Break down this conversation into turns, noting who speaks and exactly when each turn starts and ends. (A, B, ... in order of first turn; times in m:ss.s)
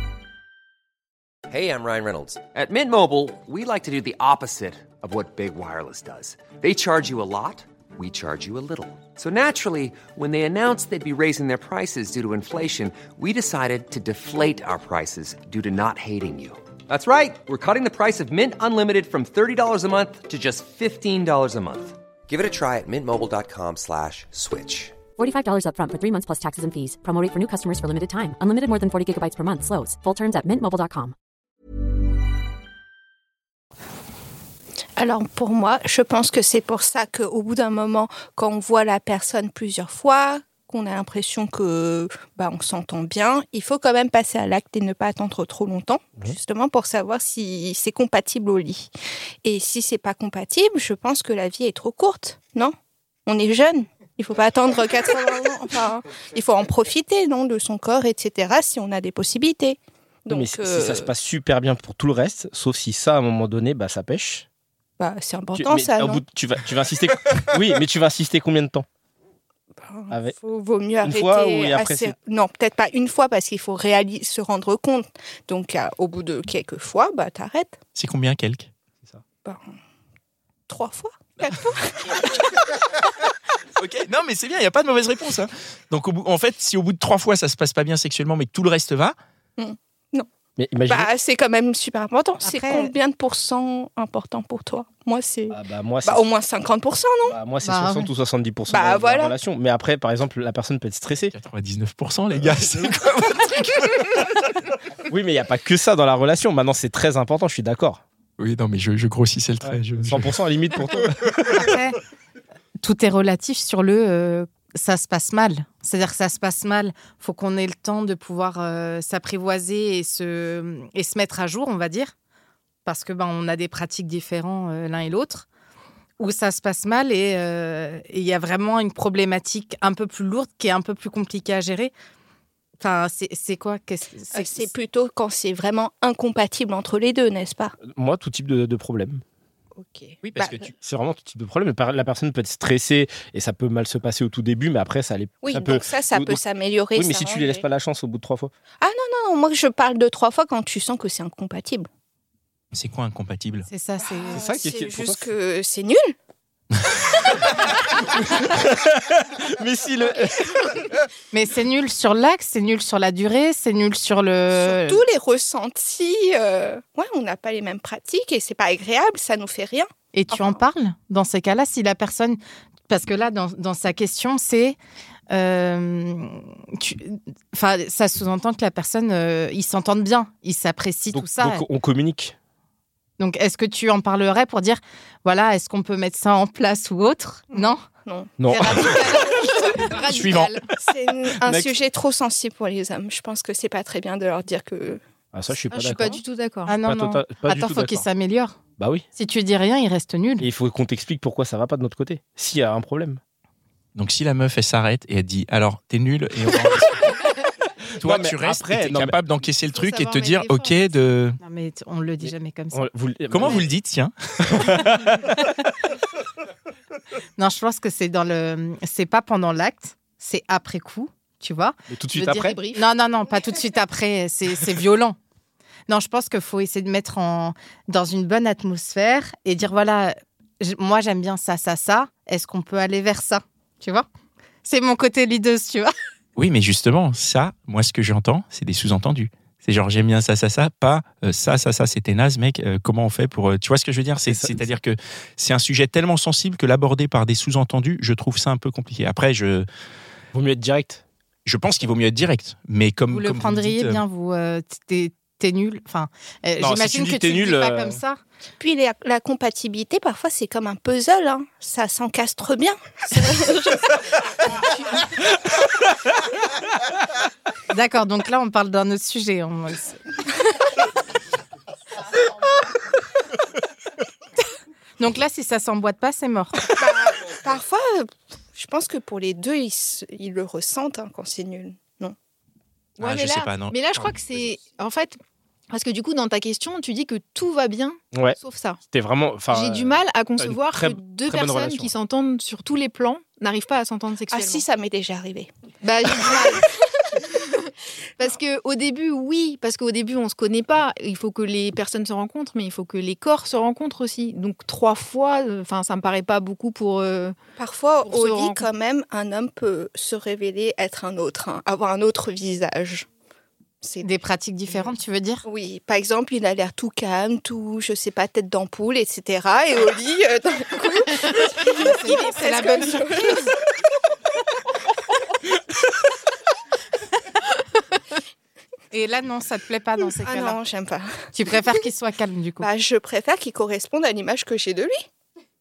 0:01.5-0:25.1 A
0:25.2-0:31.1 B
0:35.0-0:48.9 C
0:49.4-0:52.7 C
0:53.3-1:01.1 C
1:00.3-1:04.4 D
1:05.0-1:06.2 C
1:05.6-1:08.8 D
1:09.8-1:17.8 C
1:10.1-1:10.3 D
1:11.0-1:12.2 D
1:18.0-1:18.7 E
1:19.4-1:19.8 C
1:20.7-1:22.3 C
1:23.8-1:29.1 E
1:29.6-1:30.3 C
1:30.6-1:31.1 D
1:30.9-1:37.4 C
1:32.4-1:32.9 F
1:35.5-1:36.2 D
1:37.3-1:41.3 D
1:37.6-1:38.1 F
1:38.7-1:39.4 C
1:41.3-1:44.3 E
1:45.1-1:48.0 D
1:48.4-1:50.3 E
1:49.6-1:51.6 D
1:51.5-1:52.0 F
1:52.8-2:02.1 F
2:02.8-2:05.5 F
2:06.2-2:11.9 F
2:12.8-2:14.7 F
2:14.3-2:17.7 C
2:17.8-2:19.2 D
2:19.8-2:20.6 C
2:20.2-2:20.7 E
2:20.7-2:26.4 D
2:25.4-2:27.6 C
2:26.9-2:28.5 D
2:28.8-2:31.9 C
2:32.7-2:33.7 E
2:33.7-2:34.4 F
2:34.2-2:36.1 C
2:34.3-2:35.3 D
2:38.4-2:40.8 D
2:41.3-2:45.0 F
2:44.5-2:50.6 C
2:50.1-2:54.8 F
2:55.3-3:01.6 F
3:01.1-3:02.3 D
3:03.2-3:07.8 F
3:08.0-3:09.3 C
3:08.4-3:08.8 D
3:08.5-3:09.6 F
3:08.8-3:10.7 G
3:10.1-3:10.5 E
3:10.8-3:15.0 C
3:11.4-3:11.7 D
3:15.3-3:16.2 D
3:15.7-3:16.8 G
3:16.7-3:18.6 F
3:16.8-3:18.0 D
3:18.8-3:19.0 D
3:19.2-3:20.4 F
3:20.4-3:23.2 D
3:23.9-3:27.2 E
3:27.9-3:31.4 E
3:28.0-3:29.2 D
3:29.7-3:31.0 G
3:31.4-3:33.6 F
3:32.2-3:33.7 D
3:33.3-3:34.9 E
3:34.6-3:35.2 D
3:37.4-3:45.2 F
3:41.9-3:42.6 D
3:42.4-3:42.9 G
3:45.9-3:54.1 F
3:54.6-3:55.9 F
3:56.4-4:09.7 E
4:04.2-4:04.6 D
4:10.3-4:11.0 D
4:11.4-4:14.0 E
4:13.1-4:18.2 F
4:16.6-4:18.0 D
4:18.6-4:23.9 C
4:27.7-4:30.0 F
4:35.0-4:36.7 F
4:36.7-4:42.2 C
4:43.0-4:45.2 G
4:43.0-4:44.5 E
4:45.7-4:48.8 G
4:48.9-4:51.9 D
4:49.5-4:54.6 G
4:54.3-4:55.5 C
4:55.8-5:07.4 G
5:07.6-5:13.1 C
5:08.0-5:08.7 G
5:13.8-5:14.1 C
5:14.0-5:15.4 F
5:14.7-5:23.5 C
5:21.8-5:23.5 F
5:28.9-5:30.6 F
5:30.1-5:31.6 C
5:31.3-5:32.7 F
5:32.6-5:35.0 C